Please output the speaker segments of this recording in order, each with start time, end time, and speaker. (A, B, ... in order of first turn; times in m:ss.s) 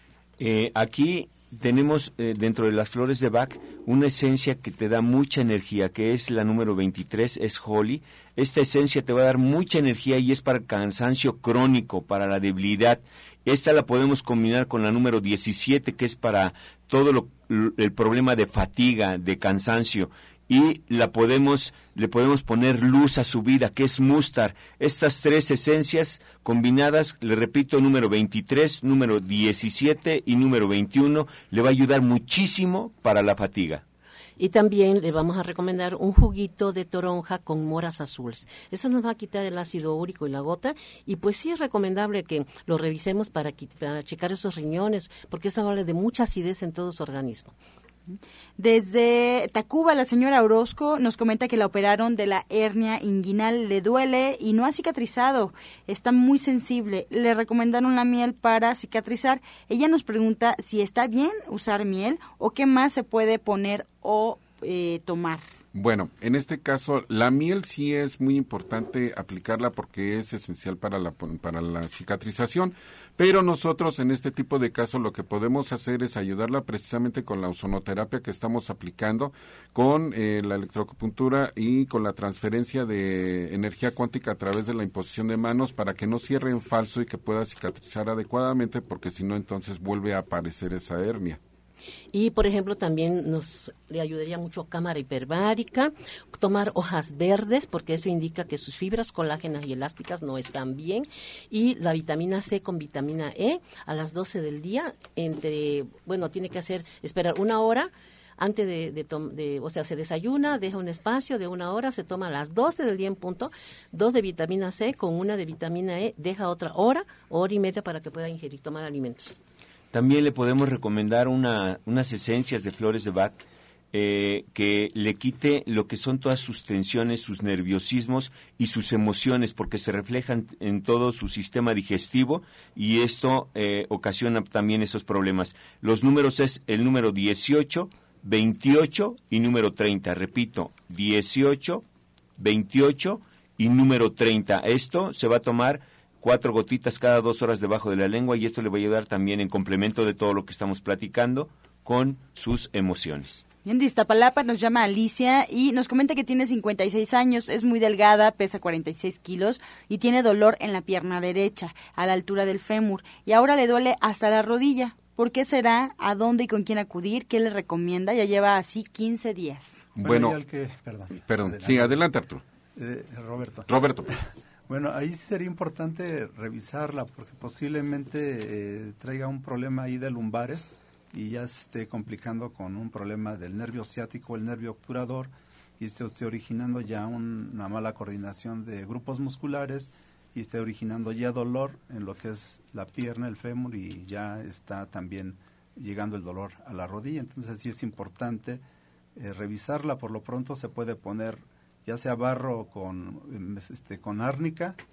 0:00.4-0:33.8 A
0:34.4-0:47.5 B
0:48.1-1:05.4 C
1:05.7-1:31.4 D
1:32.1-1:59.4 B
1:59.9-2:21.8 A
2:22.4-2:33.4 A
2:33.6-2:49.8 C
2:50.0-2:50.4 D
2:50.0-2:52.0 E
2:51.2-2:52.4 D
2:52.7-2:53.7 E
2:53.7-2:54.1 D
2:54.7-3:18.6 E
3:19.1-3:24.8 E